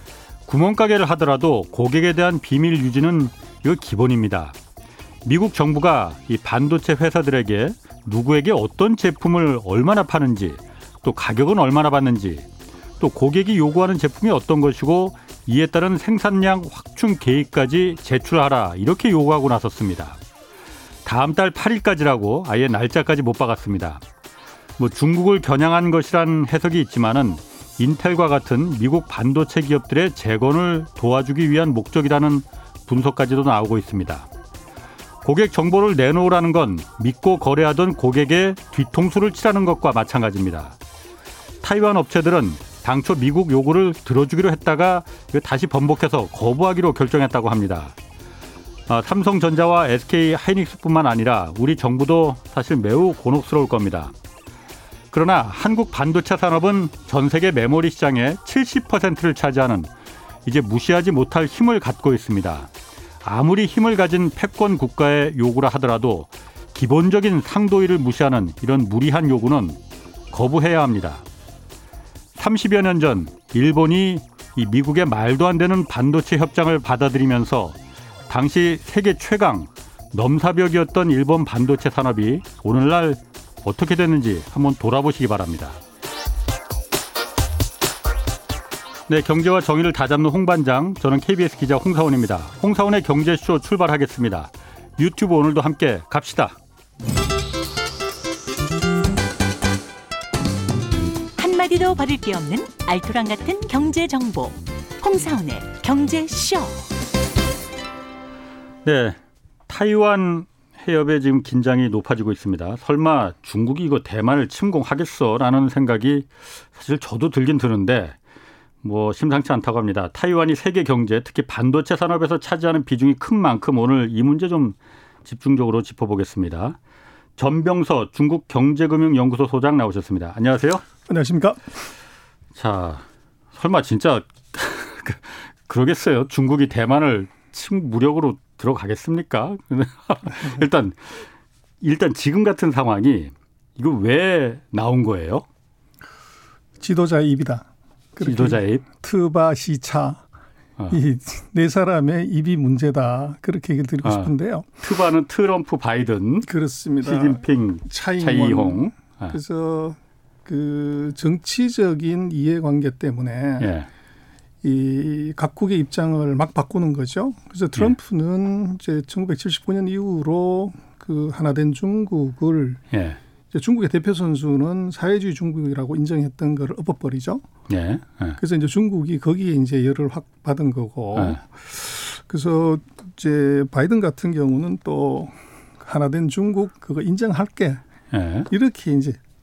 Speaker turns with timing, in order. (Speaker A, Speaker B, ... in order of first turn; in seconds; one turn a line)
Speaker A: 0.5-4.5
Speaker A: 5.2-12.5
Speaker A: 13.0-20.2
Speaker A: 21.1-24.0
Speaker A: 24.8-34.3
Speaker A: 35.2-40.8
Speaker A: 41.6-48.0
Speaker A: 48.9-54.1
Speaker A: 55.1-59.9
Speaker A: 60.5-62.7
Speaker A: 63.2-69.8
Speaker A: 70.3-71.2
Speaker A: 72.4-85.8
Speaker A: 89.1-96.6
Speaker B: 101.4-106.9
Speaker A: 108.8-118.2
Speaker A: 118.8-126.8
Speaker A: 127.4-130.8
Speaker C: 131.1-131.8
Speaker A: 132.6-141.3
Speaker A: 141.8-145.4
Speaker C: 146.8-150.2
Speaker A: 148.2-148.8
Speaker C: 150.9-154.8
Speaker A: 154.0-156.5
Speaker C: 156.4-163.7
Speaker A: 157.0-159.4
Speaker A: 163.6-163.9
Speaker C: 164.6-172.8
Speaker A: 172.9-173.2
Speaker C: 173.5-177.5
Speaker A: 177.7-178.4
Speaker C: 178.4-187.8
Speaker A: 181.1-181.4
Speaker A: 188.1-188.5
Speaker C: 188.5-189.2